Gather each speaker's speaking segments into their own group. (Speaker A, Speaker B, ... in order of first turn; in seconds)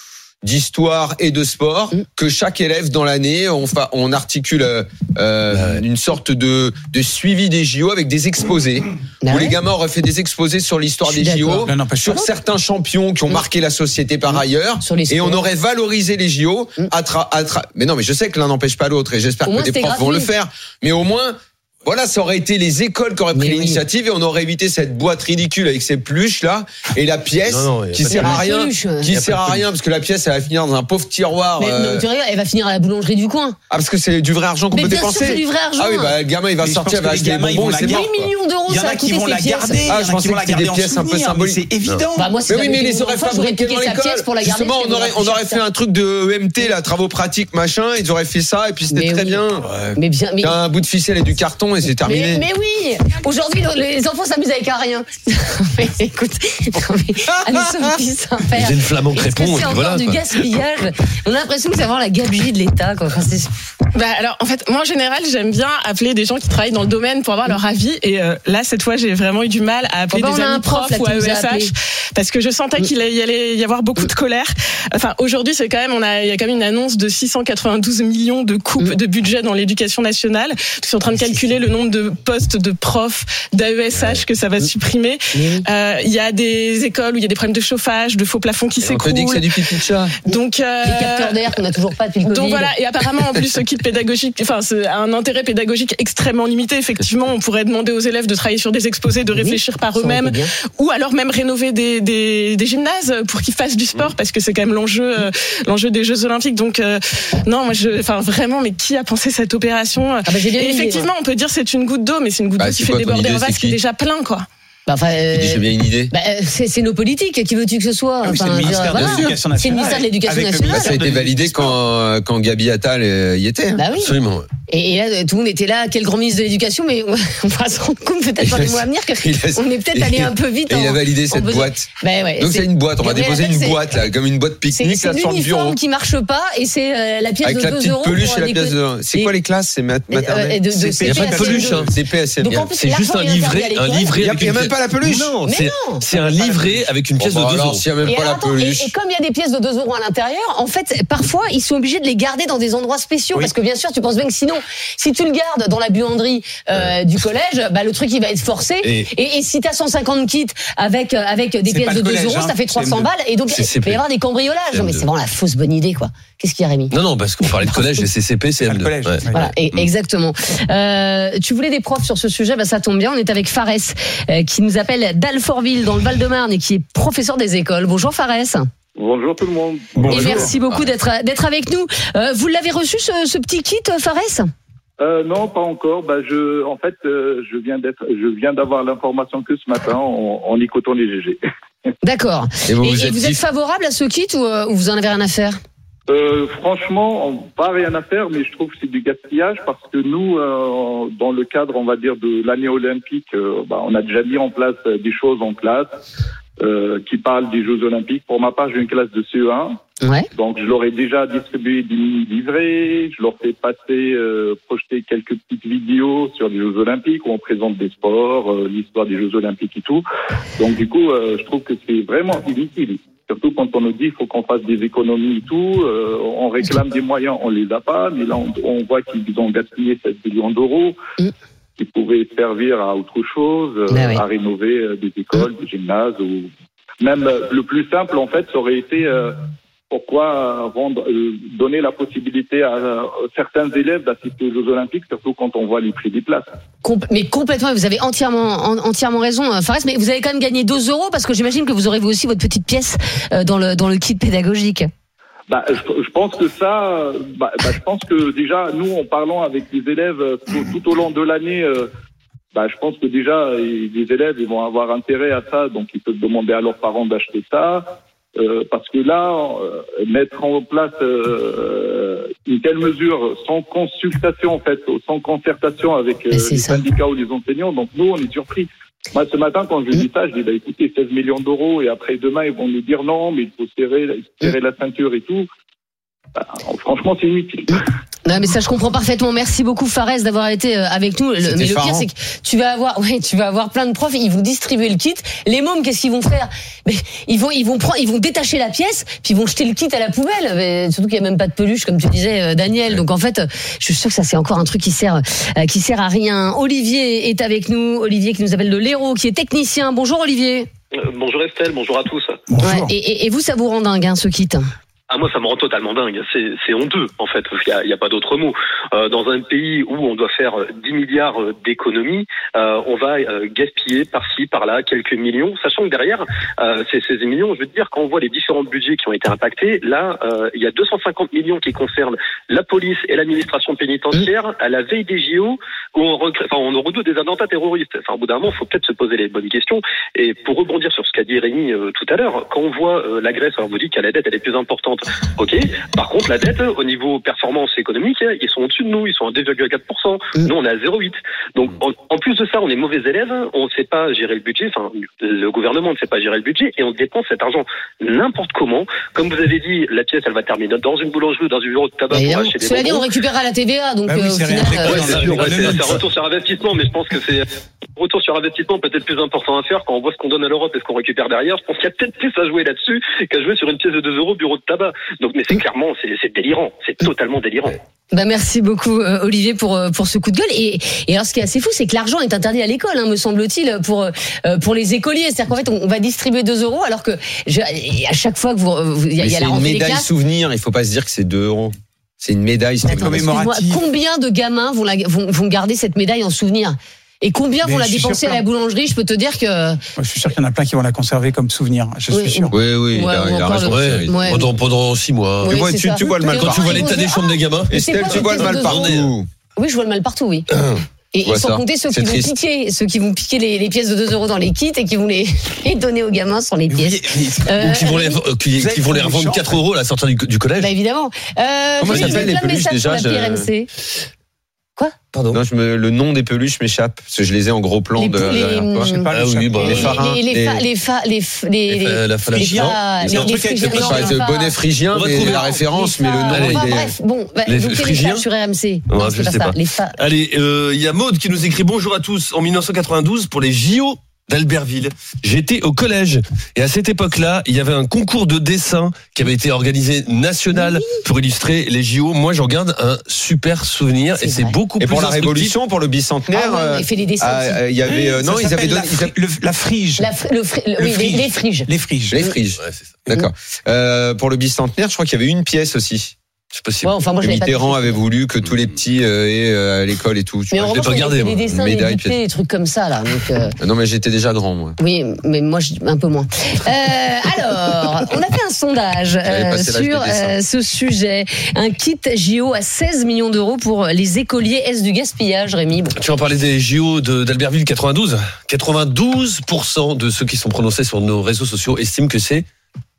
Speaker A: 0.4-32.0, 33.7-38.3, 39.9-41.7, 42.5-49.8, 50.4-52.5, 88.8-90.2, 112.6-113.8, 115.3-116.1, 118.9-119.4, 120.7-123.9, 128.4-135.8, 137.4-140.7, 141.8-142.7, 144.2-145.3, 146.3-148.9, 192.7-193.4, 291.4-292.1, 389.2-393.2, 402.5-404.4, 405.4-407.0, 407.7-409.3, 411.2-412.3, 421.8-423.5, 425.3-429.0, 429.6-430.6, 433.7-436.9, 454.8-459.1, 462.1-466.1, 467.2-470.7, 471.5-472.2, 473.6-474.8, 479.3-480.4
Speaker B: 5.5-5.8, 27.4-28.4, 29.0-29.7, 58.5-60.2, 84.0-84.2, 124.0-124.5, 141.0-141.9, 142.7-147.9, 158.8-159.1, 163.5-164.0, 164.7-165.1, 166.9-169.9, 365.1-365.6, 403.7-405.6, 406.3-409.1, 410.5-410.8, 417.6-420.7, 421.9-422.3, 425.1-425.4, 429.1-429.9, 431.7-434.0, 434.9-435.5, 436.3-436.9, 437.5-438.3, 438.9-455.6, 462.6-462.9, 466.5-466.9, 468.4-468.7, 470.6-471.5, 485.9-492.5
Speaker C: 9.2-9.6, 11.1-12.3, 14.3-15.4, 19.4-20.3, 23.3-23.8, 28.1-29.1, 31.6-33.6, 34.7-36.2, 37.8-39.9, 42.1-45.6, 48.9-49.4, 50.0-50.5, 52.0-63.5, 70.1-71.7, 81.1-81.5, 85.3-85.7, 90.8-92.7, 99.3-100.5, 110.3-111.1, 114.9-121.0, 123.8-124.2, 124.7-134.1, 134.7-139.4, 140.1-141.9, 142.4-144.2, 145.4-146.1, 148.1-166.9, 169.3-178.7, 180.0-184.5, 192.0-195.6, 210.0-210.3, 233.9-234.2, 246.8-254.9, 276.3-276.8, 288.2-310.7, 312.6-314.6, 362.1-365.1, 378.1-390.1, 392.9-399.8, 402.1-404.5, 405.4-409.0, 409.6-410.5, 411.1-418.2, 420.6-423.7, 428.0-434.6, 435.1-440.0, 450.5-451.0, 454.2-454.6, 456.3-457.6, 460.0-461.7, 466.8-468.0, 470.5-473.6, 474.8-486.0
Speaker D: 11.6-12.2, 36.6-38.1, 38.7-42.3, 49.7-50.0, 118.2-121.8, 140.8-141.9, 161.7-163.1, 168.7-169.5, 180.1-180.4, 312.5-312.9, 364.1-366.0, 392.9-393.8, 397.6-398.4, 400.0-402.5, 416.7-417.7, 418.5-419.6, 428.8-429.8, 432.3-434.2, 457.9-460.1, 460.8-462.3
Speaker E: 63.9-91.5, 92.2-114.5
Speaker F: 179.0-180.5, 185.0-191.4, 196.1-205.9, 206.6-209.8, 210.3-220.1, 220.6-231.0, 231.8-236.5, 237.0-239.3, 239.9-246.4, 255.5-261.9, 262.5-285.4, 286.4-287.8
Speaker G: 311.0-312.4, 315.1-363.1, 364.8-377.8